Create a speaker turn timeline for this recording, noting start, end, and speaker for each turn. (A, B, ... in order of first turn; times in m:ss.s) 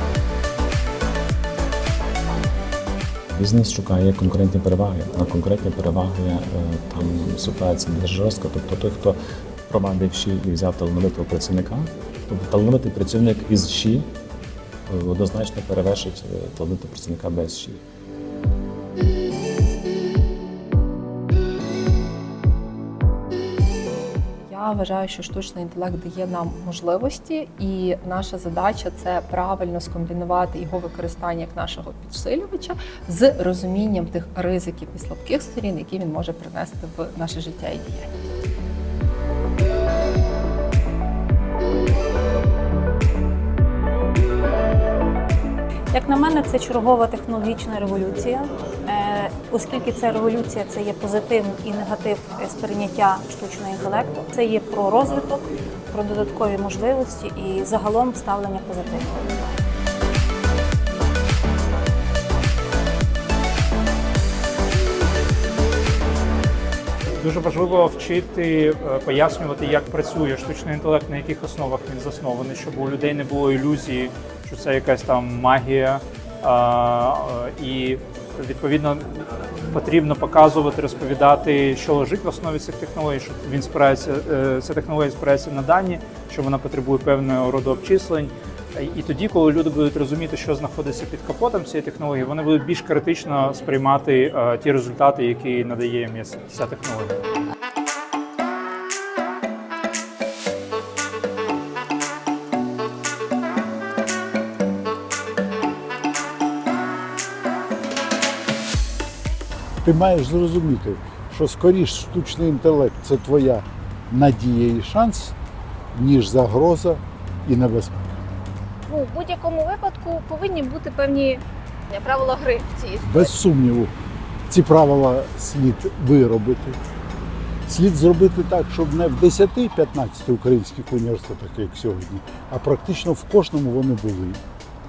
0:03.3-0:14.1 A
0:14.9-0:17.8 A
0:24.4-0:38.1 B
0:45.9-0:55.4 C
0:55.9-0:59.0 C
1:07.2-1:19.0 D
1:19.7-1:37.2 D
1:49.8-1:55.4 E
1:55.9-1:58.2 E
1:58.9-2:03.3 F
2:03.0-2:03.9 E
2:04.5-2:06.8 E
2:07.6-2:14.4 E